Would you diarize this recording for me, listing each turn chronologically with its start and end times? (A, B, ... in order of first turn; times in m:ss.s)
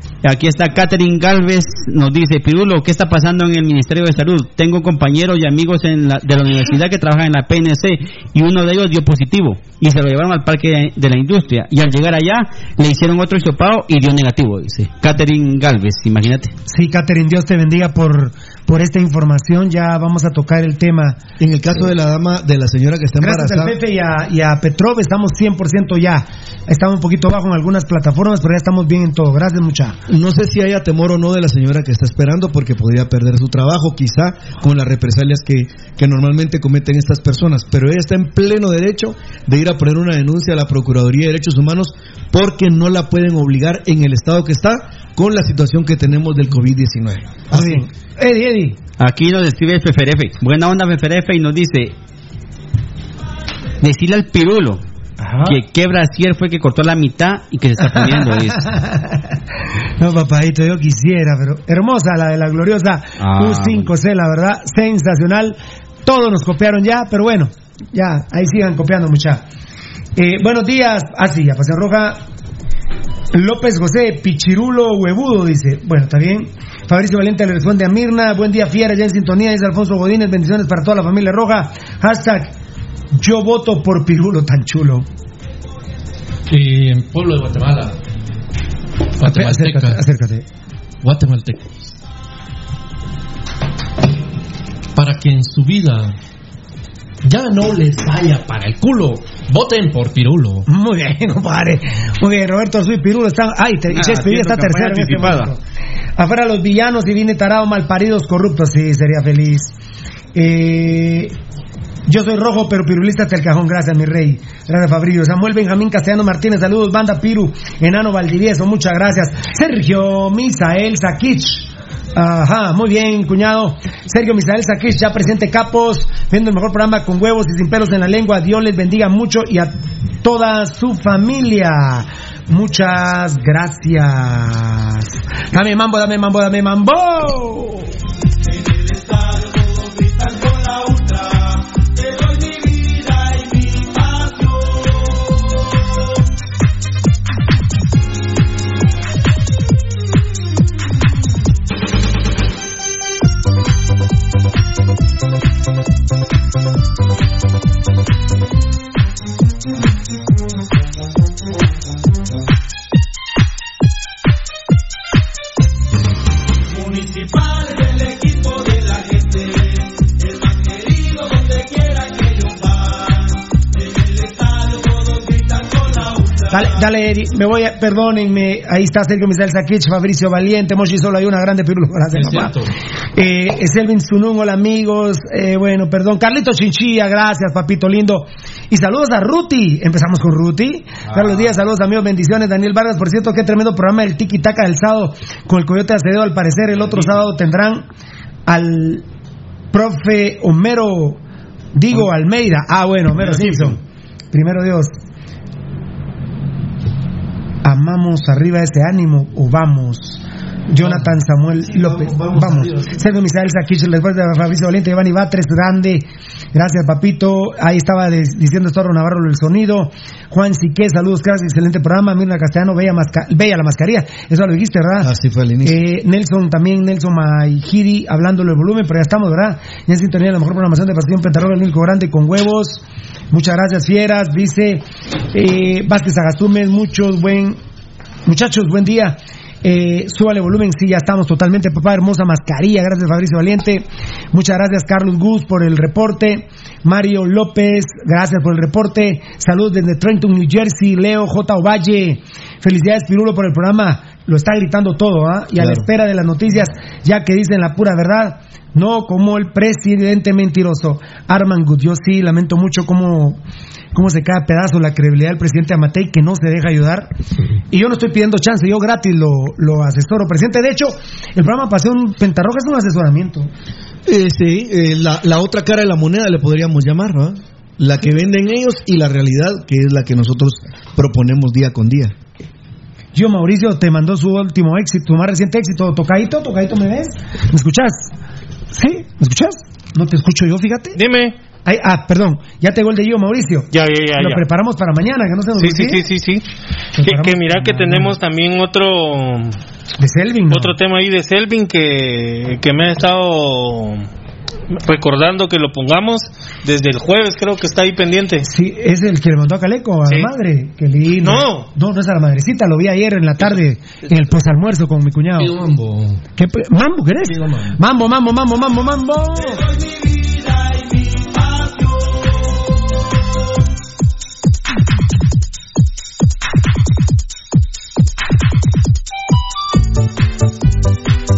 0:00.2-0:16.5 A
0:16.7-0:21.2 B
0:21.4-0:23.8 C
0:23.2-0:30.0 B
0:30.1-0:47.8 C
0:47.5-0:48.8 B
0:49.0-0:51.9 A
0:53.8-0:54.8 A
0:55.2-0:55.6 B
0:55.4-0:58.7 A
0:57.8-0:59.3 B
1:00.0-1:09.4 B
1:03.2-1:03.9 A
1:10.2-1:12.2 B
1:13.3-1:22.5 B
1:23.1-1:25.1 B
1:26.5-1:28.0 D
1:29.2-1:30.0 D
1:29.2-1:30.4 B
1:31.0-1:31.8 D
1:35.0-1:36.2 D
1:37.2-1:40.7 D
1:40.7-1:45.6 B
1:43.9-1:45.5 A
1:46.2-1:49.7 B
1:50.4-1:51.4 B
1:52.1-2:17.9 B
2:56.5-3:02.6 B
3:02.1-3:02.7 D
3:03.2-3:17.8 B
3:18.5-3:19.0 B
3:19.7-3:21.2 B
3:21.7-3:23.8 B
3:24.3-3:25.0 B
3:27.6-3:45.1 B
3:31.6-3:32.9 C
3:45.0-3:45.8 C
3:45.6-3:57.6 B
3:58.3-4:23.4 B
4:15.6-4:15.9 C
4:23.9-4:27.1 B
4:27.7-4:33.5 B
4:34.1-4:42.2 C
4:43.2-4:48.1 B
4:48.7-4:51.0 B
4:51.0-4:51.4 E
4:51.6-4:56.0 B
4:53.7-4:54.5 E
4:55.6-4:56.4 E
4:57.0-4:58.2 B
4:57.0-4:59.6 E
5:00.0-5:00.8 B
5:00.5-5:04.1 E
5:04.7-5:08.5 E
5:08.4-5:15.6 B
5:11.2-5:11.7 E
5:15.4-5:16.2 D
5:16.4-5:19.6 B
5:17.3-5:17.8 D